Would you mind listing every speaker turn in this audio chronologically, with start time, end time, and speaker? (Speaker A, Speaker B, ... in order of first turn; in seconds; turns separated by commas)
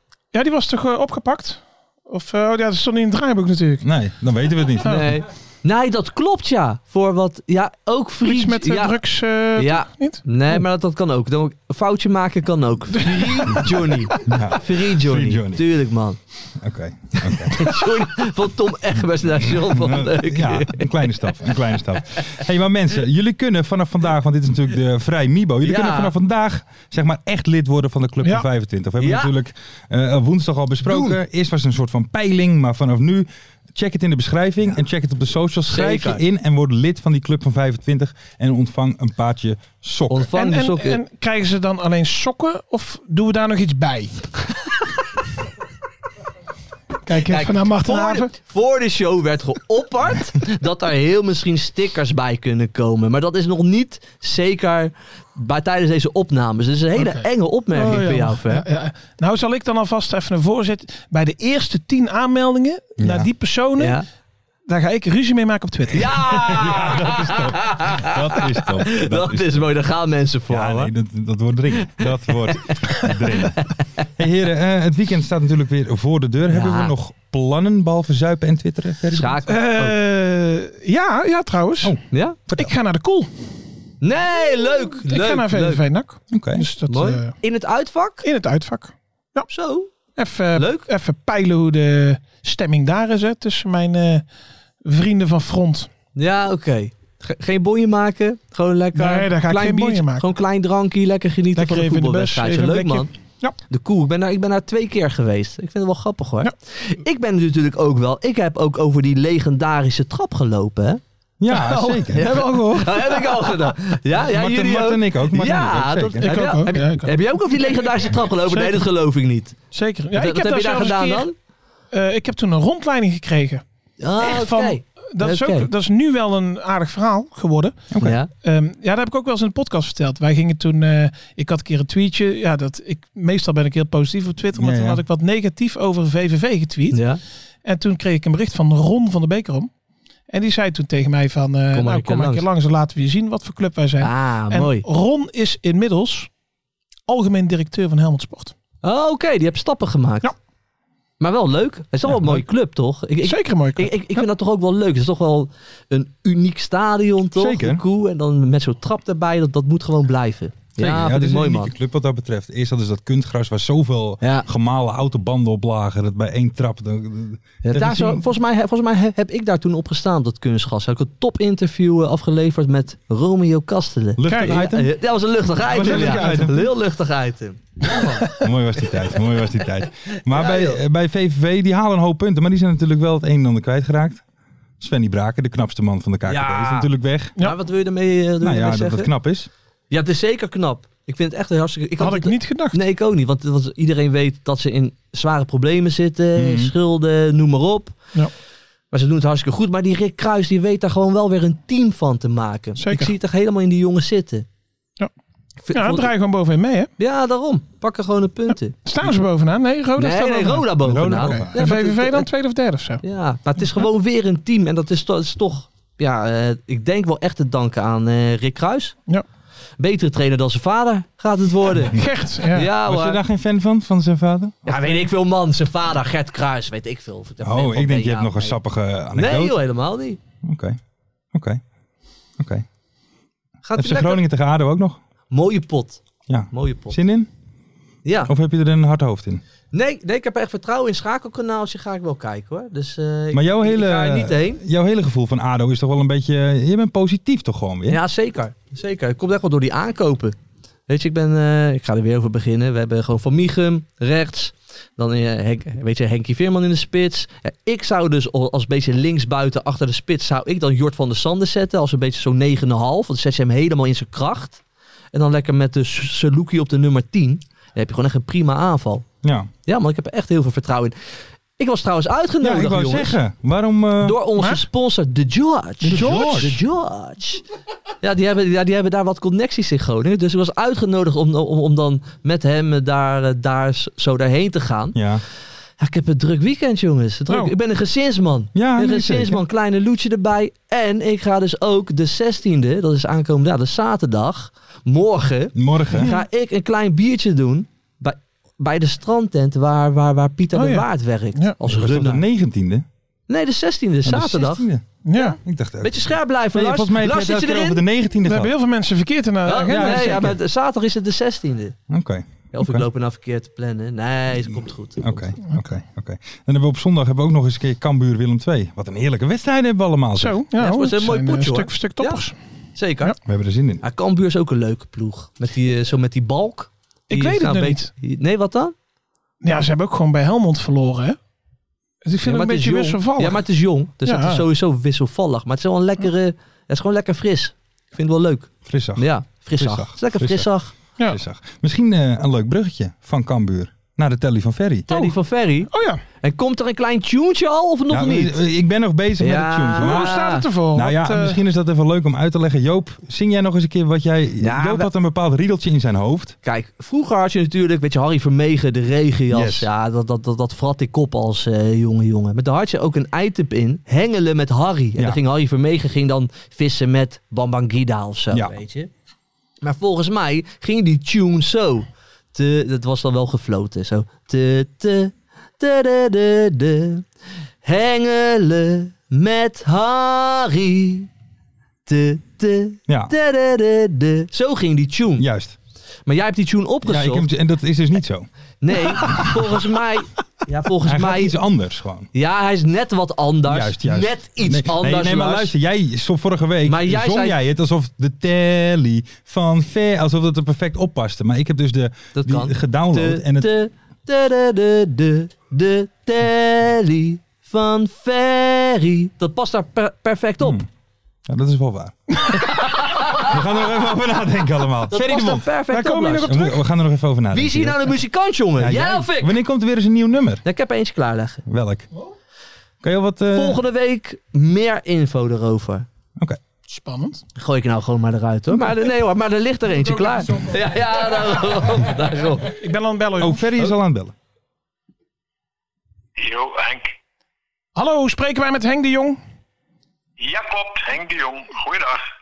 Speaker A: 0.3-3.9, Speaker B: 3.8-5.0, Speaker C: 4.8-9.0, Speaker A: 8.2-10.6, Speaker C: 9.5-16.2, Speaker A: 12.9-13.7, Speaker B: 14.2-15.7, Speaker B: 16.6-17.6, Speaker C: 17.1-21.4, Speaker B: 19.6-40.3, Speaker C: 25.6-26.1, Speaker C: 29.0-29.3, Speaker C: 30.8-31.2, Speaker C: 35.6-36.2, Speaker C: 40.1-41.0, Speaker A: 40.3-44.4, Speaker A: 47.0-48.4, Speaker C: 47.2-58.6, Speaker A: 57.0-64.0, Speaker B: 63.0-63.3, Speaker C: 63.8-64.0, Speaker A: 64.7-66.1, Speaker C: 65.9-70.9, Speaker B: 66.3-69.7, Speaker B: 70.5-73.6, Speaker C: 71.7-72.0, Speaker C: 73.4-73.7, Speaker B: 74.2-79.3, Speaker C: 76.5-76.9, Speaker C: 79.1-80.0, Speaker A: 79.5-83.3, Speaker B: 81.8-82.7, Speaker C: 82.1-82.4, Speaker C: 84.0-85.8, Speaker A: 85.1-87.4, Speaker B: 86.3-86.6, Speaker C: 86.9-88.3, Speaker A: 88.2-89.5, Speaker C: 89.5-89.9, Speaker A: 90.2-94.2, Speaker C: 90.5-90.9, Speaker A: 94.8-95.9, Speaker C: 96.1-103.1, Speaker A: 98.9-100.3, Speaker A: 101.5-103.6, Speaker C: 103.7-111.0, Speaker B: 111.4-113.2, Speaker A: 111.5-112.8, Speaker C: 112.1-119.5, Speaker B: 114.2-116.3, Speaker A: 116.2-118.9, Speaker A: 119.7-121.3, Speaker C: 120.1-121.3, Speaker A: 121.9-123.6, Speaker C: 124.0-125.7, Speaker A: 124.2-127.8, Speaker B: 127.9-128.2, Speaker C: 128.0-128.3, Speaker A: 128.4-137.1, Speaker B: 134.6-135.0, Speaker C: 136.9-137.2, Speaker A: 137.6-139.7, Speaker A: 140.3-146.3, Speaker C: 141.7-142.4, Speaker C: 144.0-144.8, Speaker A: 147.1-148.5, Speaker C: 148.8-150.3, Speaker C: 151.2-161.7, Speaker A: 152.1-152.4, Speaker A: 153.2-154.3, Speaker B: 157.3-157.8, Speaker B: 160.8-168.2, Speaker C: 164.2-164.5, Speaker C: 167.6-180.8, Speaker B: 174.2-174.9, Speaker A: 174.3-174.6, Speaker B: 175.7-176.7, Speaker A: 175.7-176.6, Speaker B: 178.3-184.2, Speaker B: 184.8-187.3, Speaker C: 186.2-189.1, Speaker B: 188.4-189.5, Speaker C: 189.9-198.0, Speaker A: 192.0-192.8, Speaker B: 196.3-196.7, Speaker C: 198.9-204.4, Speaker A: 202.8-203.1, Speaker C: 205.6-206.1, Speaker A: 205.7-206.9, Speaker C: 207.0-208.8, Speaker A: 208.5-213.0, Speaker C: 210.0-212.3, Speaker B: 210.8-211.6, Speaker C: 213.0-218.9, Speaker C: 219.8-223.2, Speaker A: 221.8-222.7, Speaker B: 222.8-224.6, Speaker C: 224.7-228.6, Speaker B: 227.4-229.6, Speaker C: 229.1-230.2, Speaker B: 230.4-230.8, Speaker B: 231.3-231.6, Speaker B: 232.4-232.6, Speaker C: 233.6-234.2, Speaker B: 233.8-235.0, Speaker C: 235.3-237.0, Speaker B: 236.3-237.3, Speaker C: 238.0-238.3, Speaker B: 238.2-239.4, Speaker C: 239.7-244.6, Speaker B: 243.3-248.0, Speaker C: 247.9-250.3, Speaker C: 250.9-264.6, Speaker C: 265.1-269.0, Speaker B: 269.2-269.5, Speaker C: 269.7-270.9, Speaker C: 271.6-273.2, Speaker B: 272.4-274.2, Speaker C: 274.0-277.4, Speaker A: 274.4-274.6, Speaker A: 275.8-276.5, Speaker B: 275.9-276.6, Speaker C: 278.0-285.0, Speaker B: 284.9-285.2, Speaker C: 285.8-302.2, Speaker A: 287.3-287.5, Speaker B: 288.5-289.4, Speaker B: 295.5-296.1, Speaker A: 295.9-296.2, Speaker A: 300.5-301.6, Speaker B: 301.6-302.9, Speaker C: 303.3-304.6, Speaker B: 304.0-308.5, Speaker A: 305.0-305.4, Speaker C: 305.8-307.8, Speaker A: 308.2-310.3, Speaker C: 309.4-311.8, Speaker B: 309.6-310.4, Speaker B: 311.9-312.9, Speaker C: 312.5-315.3, Speaker B: 315.0-320.4, Speaker A: 320.1-322.4, Speaker C: 320.5-323.1, Speaker B: 323.2-323.8, Speaker C: 323.8-328.7, Speaker A: 327.1-327.9, Speaker A: 329.4-331.2, Speaker A: 332.0-333.4, Speaker C: 332.2-340.7, Speaker A: 334.0-334.5, Speaker B: 338.6-345.1, Speaker C: 344.9-345.7, Speaker A: 345.7-346.0, Speaker C: 346.2-348.4, Speaker B: 347.9-356.4, Speaker C: 349.2-350.5, Speaker A: 349.8-351.4, Speaker C: 354.4-354.9, Speaker C: 356.4-368.9, Speaker B: 359.3-359.7, Speaker C: 369.6-377.0, Speaker C: 377.6-381.1, Speaker C: 381.9-385.2, Speaker B: 382.9-383.1, Speaker B: 385.2-385.6, Speaker C: 386.1-387.3, Speaker B: 386.8-388.3, Speaker C: 388.6-391.4, Speaker B: 388.9-389.3, Speaker B: 390.8-392.1, Speaker C: 392.1-395.5, Speaker B: 393.4-403.5, Speaker C: 396.6-397.4, Speaker C: 402.1-410.6, Speaker B: 410.4-410.6, Speaker B: 411.3-415.4, Speaker C: 412.5-413.2, Speaker C: 414.9-416.3, Speaker A: 415.7-416.6, Speaker B: 416.2-418.0, Speaker C: 417.3-419.3, Speaker B: 418.6-420.4, Speaker C: 420.4-421.4, Speaker B: 421.4-421.9, Speaker B: 422.8-423.6, Speaker C: 423.3-425.9, Speaker A: 426.6-427.2, Speaker C: 427.4-432.5, Speaker A: 432.5-433.4, Speaker B: 433.2-434.1, Speaker D: 436.2-436.9, Speaker A: 437.7-439.2, Speaker D: 440.2-442.0